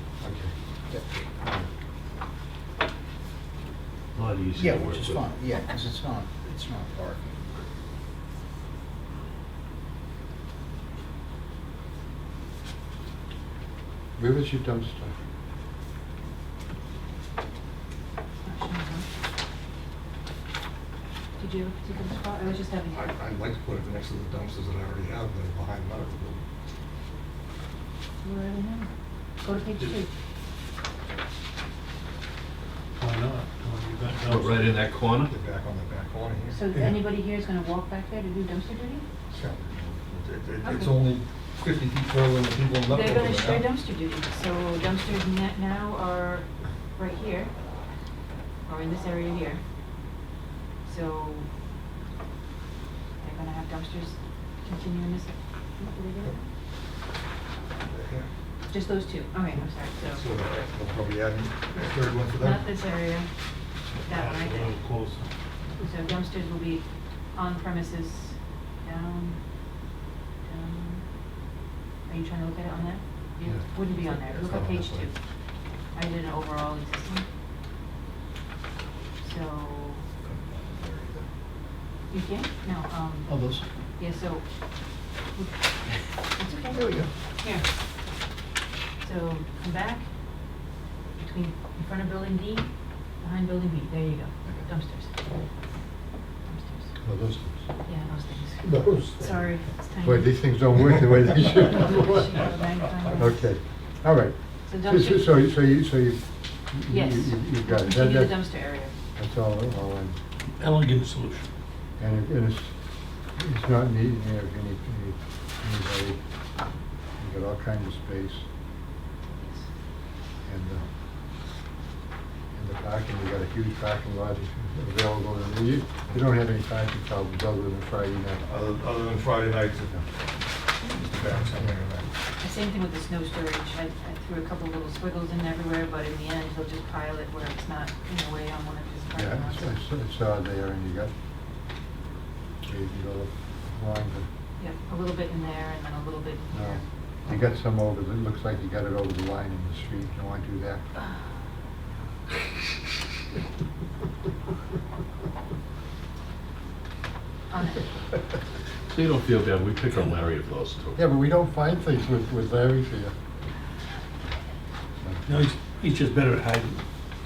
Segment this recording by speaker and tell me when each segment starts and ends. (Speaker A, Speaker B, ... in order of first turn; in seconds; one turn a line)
Speaker A: 0.2-0.5
Speaker B: 0.9-1.3
Speaker C: 4.1-5.2
Speaker B: 4.6-7.7
Speaker A: 14.2-15.1
Speaker D: 18.4-19.1
Speaker D: 21.4-23.1
Speaker E: 22.9-26.4
Speaker D: 28.2-28.9
Speaker D: 29.4-30.1
Speaker F: 33.0-34.5
Speaker C: 34.2-35.3
Speaker E: 35.1-37.0
Speaker D: 36.5-39.0
Speaker E: 39.3-43.7
Speaker D: 40.6-41.0
Speaker D: 42.9-47.5
Speaker D: 48.6-49.6
Speaker D: 50.9-51.5
Speaker D: 53.2-56.5
Speaker E: 57.9-58.3
Speaker D: 58.7-60.2
Speaker E: 60.0-62.7
Speaker D: 62.4-63.3
Speaker D: 64.0-64.8
Speaker F: 64.1-65.3
Speaker D: 65.8-66.8
Speaker D: 67.3-69.4
Speaker D: 70.4-71.0
Speaker D: 72.1-75.1
Speaker E: 74.2-75.0
Speaker D: 75.9-77.2
Speaker D: 79.2-80.0
Speaker E: 80.5-81.2
Speaker D: 82.1-83.3
Speaker E: 83.3-83.6
Speaker D: 84.0-84.4
Speaker D: 86.3-86.8
Speaker E: 86.7-87.1
Speaker D: 89.0-90.1
Speaker D: 91.2-92.7
Speaker D: 93.2-95.1
Speaker D: 96.5-96.8
Speaker A: 97.0-97.6
Speaker D: 97.9-98.7
Speaker E: 98.6-99.3
Speaker D: 99.2-100.2
Speaker A: 100.0-102.4
Speaker D: 101.8-103.3
Speaker A: 103.1-108.5
Speaker D: 104.7-105.3
Speaker D: 106.9-108.9
Speaker A: 109.2-110.2
Speaker F: 110.6-111.5
Speaker A: 112.0-112.7
Speaker A: 113.4-116.2
Speaker A: 117.2-118.4
Speaker A: 120.4-120.8
Speaker A: 122.5-128.4
Speaker E: 128.4-129.9
Speaker E: 130.9-132.1
Speaker A: 131.4-131.8
Speaker D: 132.4-139.7
Speaker A: 139.1-141.1
Speaker A: 142.6-144.3
Speaker D: 144.6-146.8
Speaker A: 146.5-150.8
Speaker D: 157.5-157.8
Speaker C: 158.9-161.0
Speaker A: 160.9-163.1
Speaker A: 165.0-165.3
Speaker F: 165.3-166.8